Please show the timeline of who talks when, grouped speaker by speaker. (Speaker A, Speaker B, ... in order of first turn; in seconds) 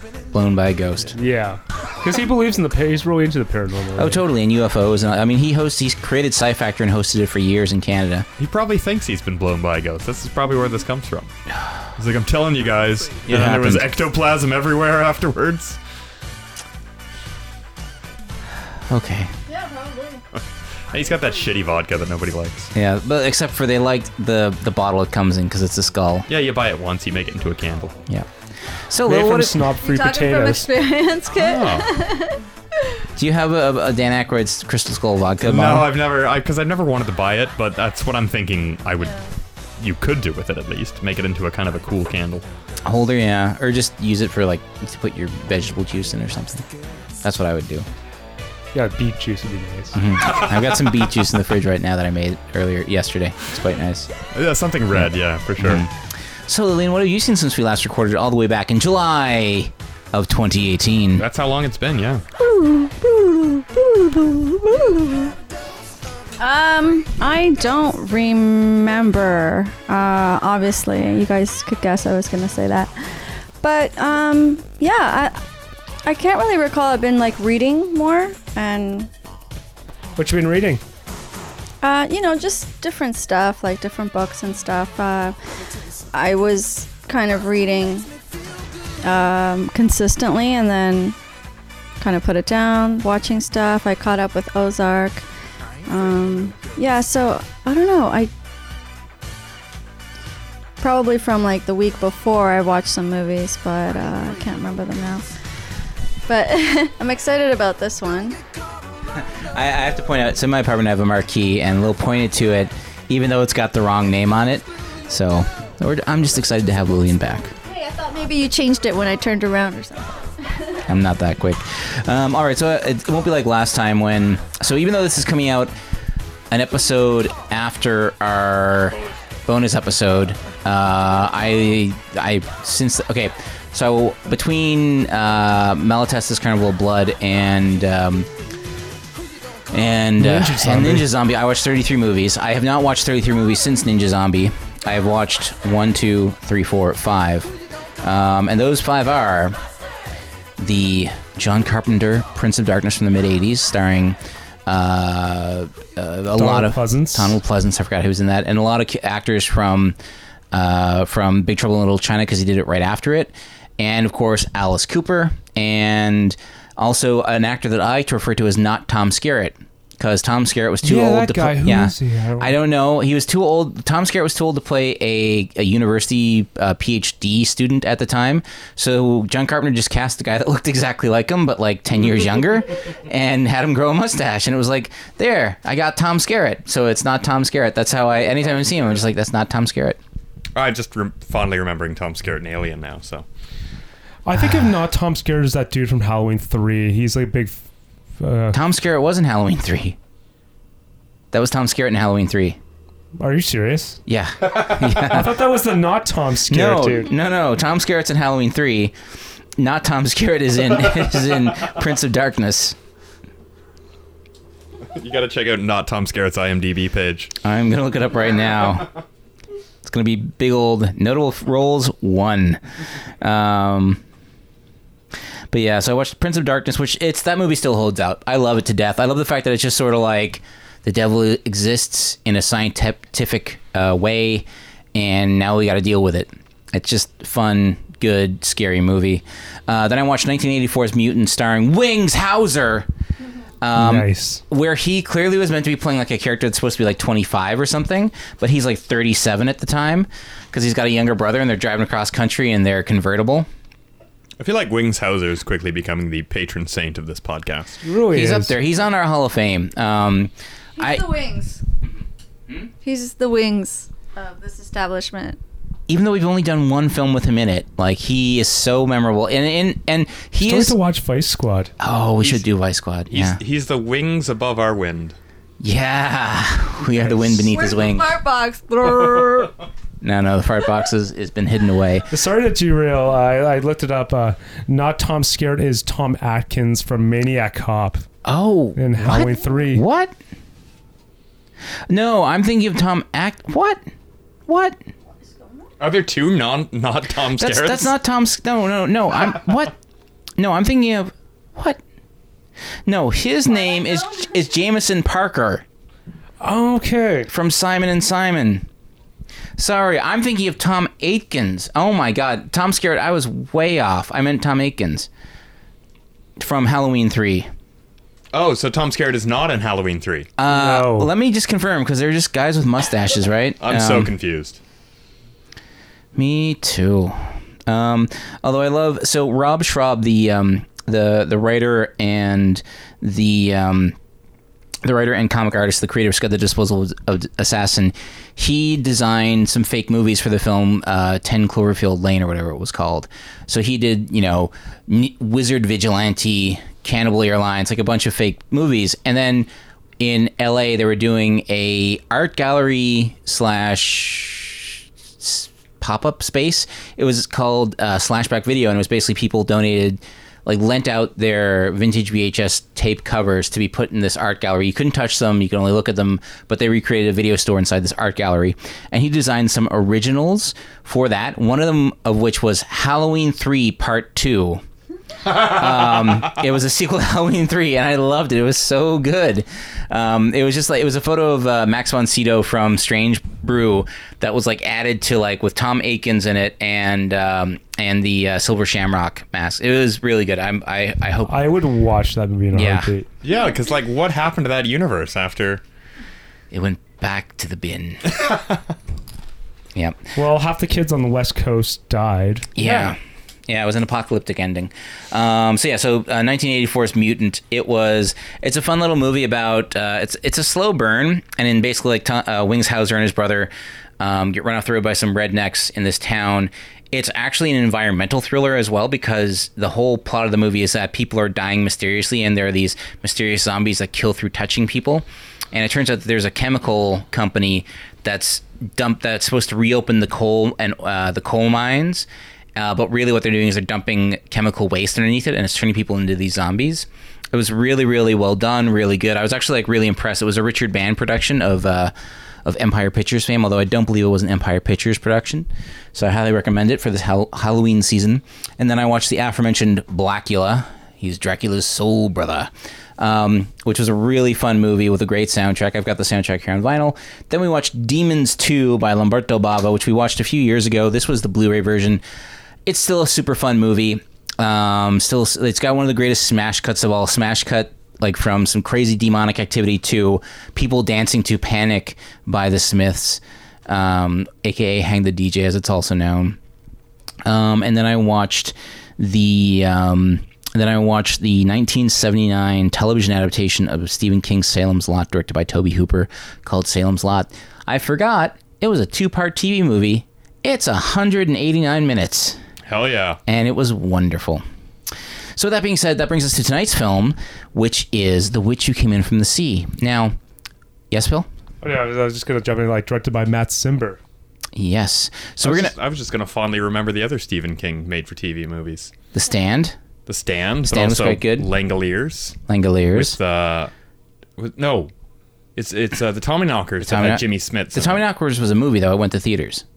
Speaker A: 0.3-1.2, 4.0-8.3, 13.3-13.9, 18.9-19.3, 22.7-26.3, 28.9-29.7, 33.2-35.9, 42.8-46.7, 47.2-47.9, 50.0-54.1, 55.0-55.9, 56.5-61.2, 109.2-117.5, 120.9-125.7, 126.5-138.3, 139.7-147.5, 148.0-149.6, 150.6-160.0, 160.5-190.0, 194.4-194.7, 198.5-200.0, 201.3-202.6, 204.1-205.5, 206.5-208.9, 209.6-212.8, 217.4-218.9, 219.8-222.6, 223.2-224.0, 225.5-242.9, 243.6-253.5, 258.1-261.1, 265.9-270.8, 271.8-273.4, 275.6-278.1, 280.0-282.1, 288.2-290.1, 291.9-293.8, 294.5-294.8, 297.4-299.7, 300.4-301.8, 302.9-305.6, 307.3-308.7, 309.6-315.1, 316.4-317.5, 320.4-324.1, 326.1-333.9, 334.8-349.5, 350.0-374.6, 375.3-391.5, 392.5-392.9, 396.5-398.2, 402.6-441.9, 442.4-462.0, 462.7-476.4, 477.2-492.4, 493.3-494.4, 495.4-500.2, 500.9-501.3, 504.6-505.7, 509.1-509.8, 510.6-511.5, 512.5-513.2, 516.8-519.6
Speaker B: 1.1-4.2, 29.1-30.7, 48.7-50.0, 80.2-80.8, 140.2-141.1, 156.3-157.4, 170.8-172.6, 194.2-197.6, 198.2-198.6, 203.2-204.0, 205.0-207.1, 243.8-244.4, 257.8-258.6, 270.4-271.7, 282.1-288.1, 288.8-289.8, 306.4-307.3, 320.5-321.1, 391.3-393.1, 400.1-402.9, 501.6-504.0
Speaker C: 8.4-11.3, 11.9-15.8, 20.9-22.7, 26.3-28.0, 31.3-32.0, 35.4-39.2, 39.8-42.5, 50.2-51.0, 54.3-55.9, 61.2-62.2, 190.6-193.3, 214.9-217.3, 254.4-257.8, 273.1-275.2, 295.8-297.9, 318.3-320.3, 323.6-324.6, 393.2-395.6, 492.6-493.2, 505.4-508.9, 510.1-512.4, 512.9-513.7, 514.4-514.9, 515.5-518.0
Speaker D: 19.5-20.3, 29.8-32.4, 62.4-65.3, 66.4-72.9, 73.6-75.4, 76.0-79.1, 81.8-85.4, 86.1-88.1, 89.0-91.2, 92.0-95.2, 95.8-98.3, 100.8-105.3, 106.3-108.4, 117.6-120.7, 260.8-261.6, 262.8-265.4, 277.5-279.6, 303.6-304.2